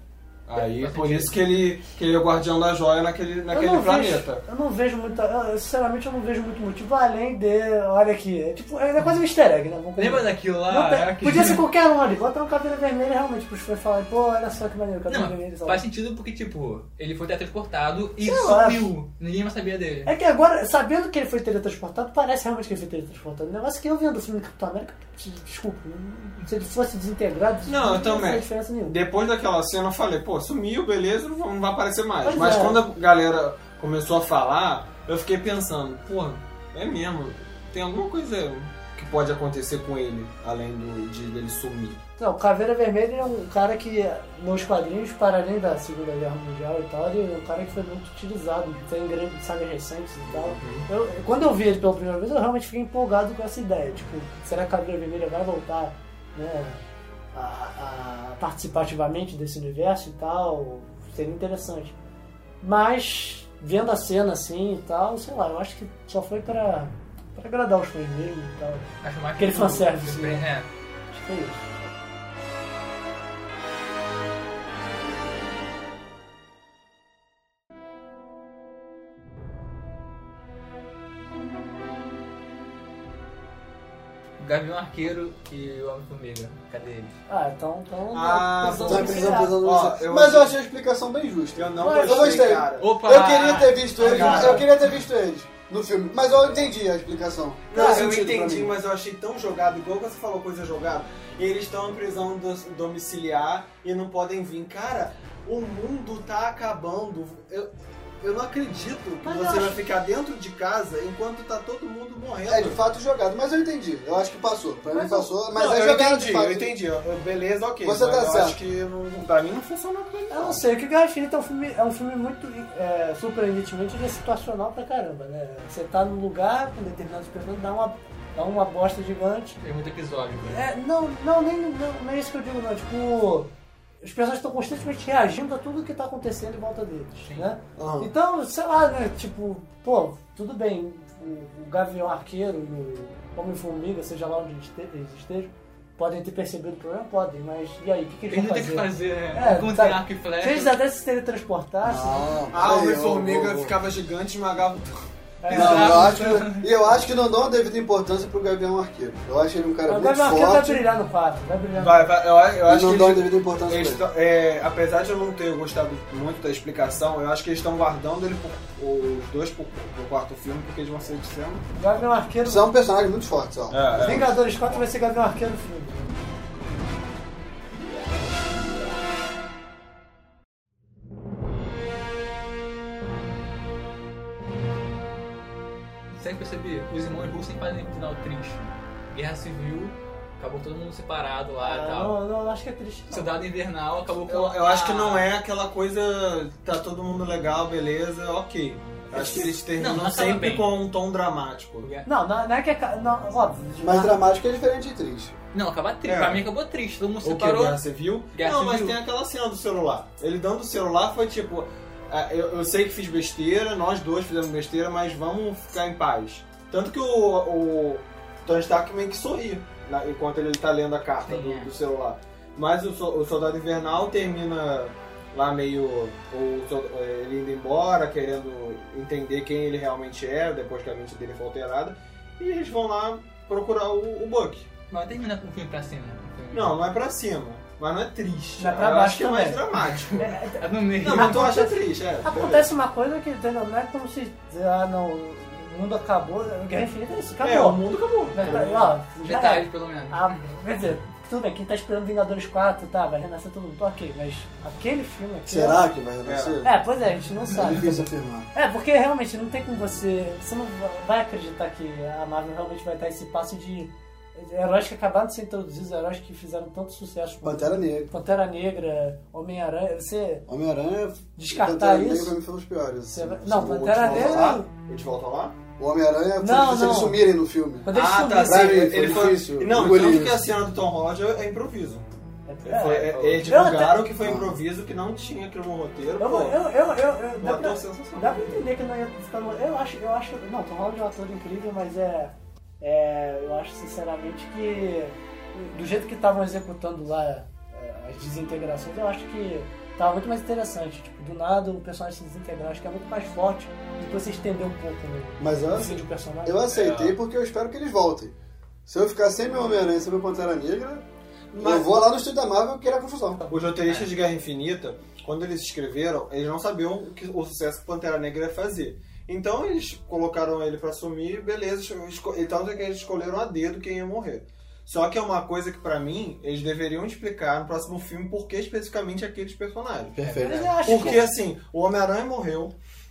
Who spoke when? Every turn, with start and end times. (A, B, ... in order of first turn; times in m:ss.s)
0:00.5-0:04.4 A
0:00.5-0:01.4 B
0:03.5-0:15.8 C
0:10.0-0:11.6 B
0:15.1-0:20.1 B
0:18.2-0:18.9 C
0:20.0-0:28.9 C
0:27.6-0:42.0 A
0:32.2-0:32.8 C
0:42.2-0:56.8 C
0:50.4-0:50.9 A
0:57.3-1:02.0 C
1:02.6-1:08.8 C
1:09.0-1:10.7 B
1:09.4-1:10.4 C
1:11.1-1:11.8 C
1:24.4-1:27.2 B
1:27.3-1:29.6 C
1:28.1-1:30.5 A
1:28.8-1:38.7 D
1:31.6-1:32.9 A
1:31.8-1:32.4 C
1:32.8-1:34.8 B
1:34.0-1:34.7 A
1:34.2-1:34.6 C
1:37.7-1:52.8 A
1:37.7-1:38.1 C
1:49.2-1:49.8 C
1:52.4-1:56.7 D
1:54.9-1:55.3 C
1:55.5-2:00.6 A
1:57.8-1:58.6 D
2:00.3-2:09.6 C
2:09.6-2:10.6 B
2:10.4-2:13.5 C
2:14.0-2:32.3 C
2:17.2-2:17.5 B
2:17.8-2:18.1 A
2:28.3-2:30.8 B
2:31.8-2:33.8 D
2:32.5-2:34.9 A
2:35.4-2:36.2 C
2:35.4-2:36.7 B
2:35.5-2:40.8 D
2:39.9-2:42.1 C
2:41.8-2:51.6 A
2:42.7-2:44.0 D
2:51.8-2:52.6 C
2:52.4-2:54.3 D
2:53.7-2:54.8 A
2:54.0-2:56.1 C
3:06.1-3:12.2 B
3:11.6-3:13.4 C
3:13.1-3:15.3 B
3:14.3-3:21.9 A
3:19.1-3:20.7 B
3:21.8-3:22.1 B
3:22.0-3:24.2 C
3:23.8-3:25.3 D
3:25.5-3:27.8 B
3:26.0-3:26.4 A
3:27.2-3:54.7 A
3:28.3-3:29.0 B
3:41.2-3:41.7 B
3:54.9-3:56.8 B
3:56.5-4:00.3 A
3:58.6-3:59.6 C
3:59.7-4:01.5 B
4:00.2-4:07.8 C
4:01.0-4:02.6 A
4:07.4-4:08.9 A
4:08.3-4:15.8 C
4:08.4-4:08.6 B
4:09.2-4:10.4 B
4:15.4-4:16.8 D
4:16.2-4:16.6 A
4:16.6-4:18.0 C
4:17.5-4:18.5 D
4:18.5-4:30.4 C
4:27.4-4:28.1 D
4:30.5-4:34.6 D
4:31.4-4:32.4 C
4:33.1-4:34.7 C
4:33.6-4:35.6 A
4:35.8-4:40.4 D
4:36.4-4:37.2 C
4:37.8-4:39.1 C
4:37.9-4:42.0 A
4:42.5-4:44.1 C
4:42.6-4:46.6 A
4:43.1-4:43.4 B
4:44.2-4:44.6 D
4:46.2-5:06.6 C
4:47.4-4:48.6 A
5:05.4-5:08.3 D
5:06.7-5:07.2 A
5:08.8-5:13.5 D
5:11.5-5:11.9 A
5:13.5-5:30.1 A
5:30.1-5:30.8 D
5:30.2-5:31.2 B
5:30.4-5:31.3 C
5:30.8-5:32.7 A